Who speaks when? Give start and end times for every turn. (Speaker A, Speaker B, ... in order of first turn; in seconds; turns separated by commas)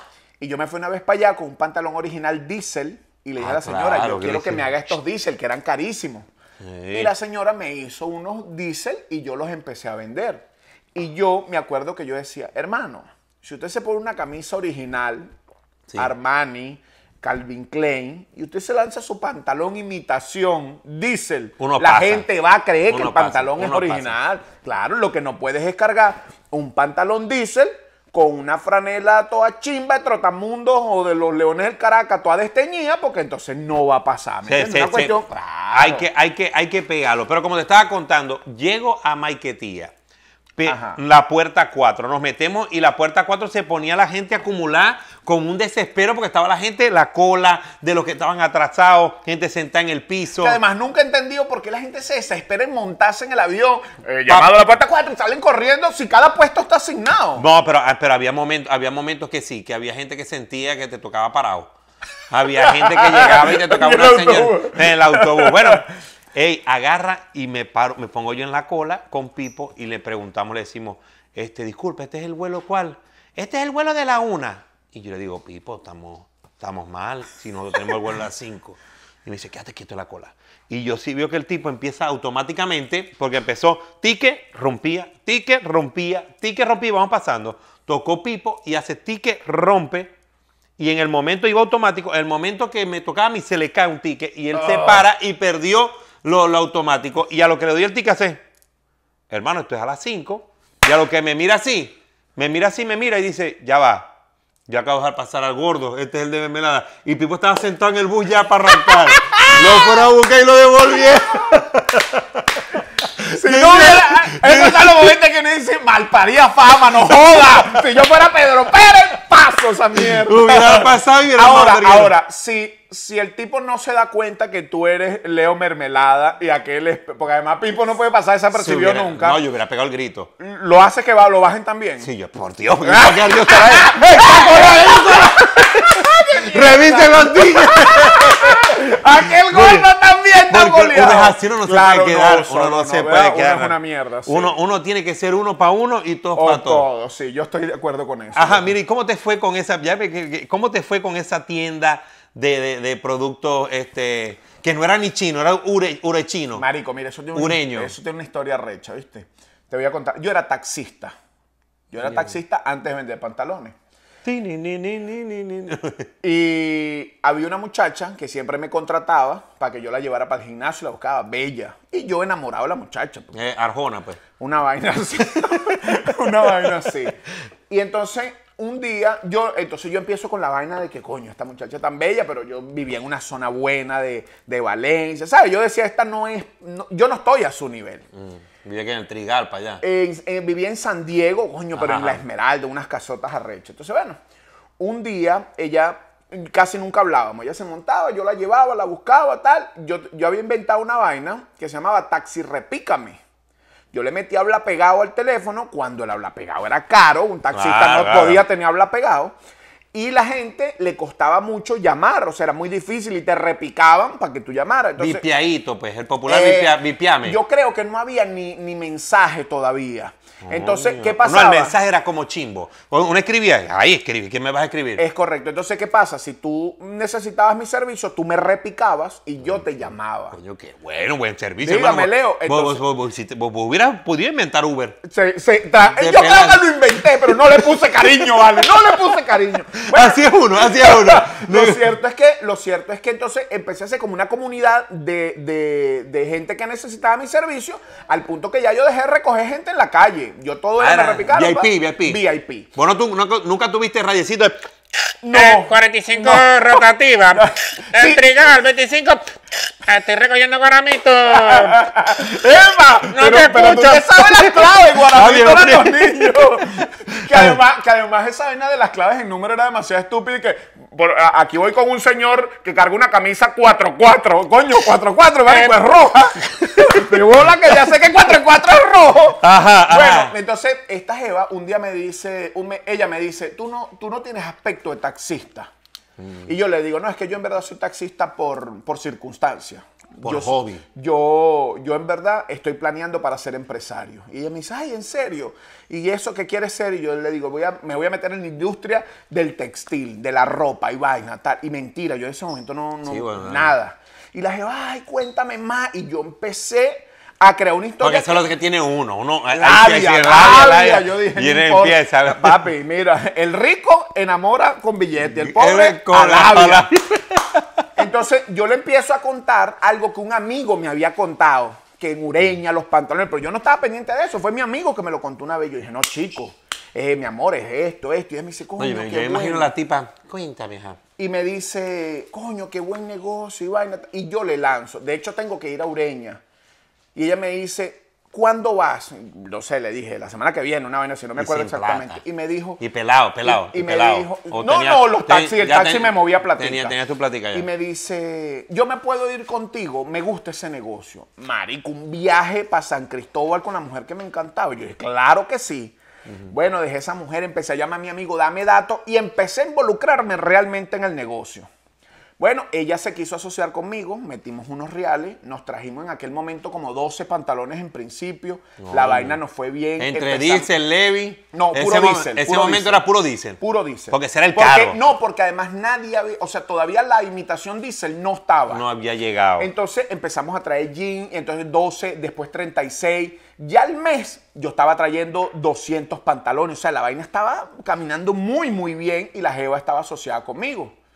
Speaker A: 0.4-6.3, Speaker B: 3.4-4.8, Speaker B: 6.6-7.1, Speaker A: 6.9-15.3, Speaker A: 16.0-36.1, Speaker B: 21.6-22.3, Speaker B: 22.9-24.2, Speaker B: 34.5-39.9, Speaker B: 40.6-50.6, Speaker A: 40.6-41.0, Speaker A: 50.4-57.5, Speaker B: 54.3-54.5, Speaker B: 57.4-61.7, Speaker B: 62.3-90.1, Speaker A: 62.6-65.8, Speaker B: 90.8-98.4, Speaker A: 94.5-95.0, Speaker B: 99.3-104.1, Speaker B: 104.7-112.4, Speaker A: 108.8-110.0, Speaker A: 111.0-111.6, Speaker B: 113.2-114.9, Speaker A: 113.2-129.4, Speaker B: 120.0-122.1, Speaker B: 128.5-130.3, Speaker A: 130.4-132.1, Speaker B: 132.0-138.8, Speaker A: 132.8-144.6, Speaker B: 139.5-139.8, Speaker B: 140.5-146.8, Speaker A: 146.3-148.7, Speaker B: 148.3-156.6, Speaker A: 156.6-161.1, Speaker B: 157.3-157.9, Speaker A: 161.9-163.7, Speaker B: 162.0-162.3, Speaker B: 164.2-166.1, Speaker A: 166.2-173.3, Speaker B: 173.3-174.2, Speaker A: 174.4-188.1, Speaker B: 188.1-189.8, Speaker A: 189.8-194.2, Speaker B: 191.7-192.2, Speaker A: 194.8-203.2, Speaker A: 203.9-209.3, Speaker B: 207.5-208.4, Speaker A: 209.9-215.2, Speaker B: 215.0-217.4, Speaker A: 216.3-221.8, Speaker B: 220.4-225.0, Speaker A: 225.0-230.4, Speaker B: 230.3-235.0, Speaker A: 231.6-232.8, Speaker A: 235.0-252.7, Speaker B: 235.9-236.7, Speaker B: 239.8-241.9, Speaker B: 250.8-252.2, Speaker B: 252.7-254.6, Speaker A: 255.2-258.4, Speaker C: 255.3-261.8, Speaker A: 261.3-285.7, Speaker C: 263.1-264.0, Speaker B: 263.2-263.8, Speaker B: 265.1-266.3, Speaker B: 267.2-267.4, Speaker B: 279.4-280.3, Speaker B: 286.2-286.5, Speaker A: 286.4-308.4, Speaker B: 290.2-290.8, Speaker B: 303.1-303.7, Speaker B: 308.0-312.7, Speaker A: 309.5-316.9, Speaker B: 315.3-317.9, Speaker A: 317.9-329.7, Speaker B: 328.8-331.0, Speaker A: 331.2-336.4, Speaker A: 337.1-342.8, Speaker B: 341.4-342.2, Speaker B: 342.8-347.7, Speaker A: 343.4-346.9, Speaker A: 347.5-356.0, Speaker B: 356.3-356.5, Speaker A: 356.5-361.7, Speaker A: 362.4-370.7, Speaker B: 368.8-369.4, Speaker B: 370.0-375.0, Speaker A: 371.5-373.1, Speaker A: 373.6-378.8, Speaker B: 378.7-379.7, Speaker A: 379.6-390.9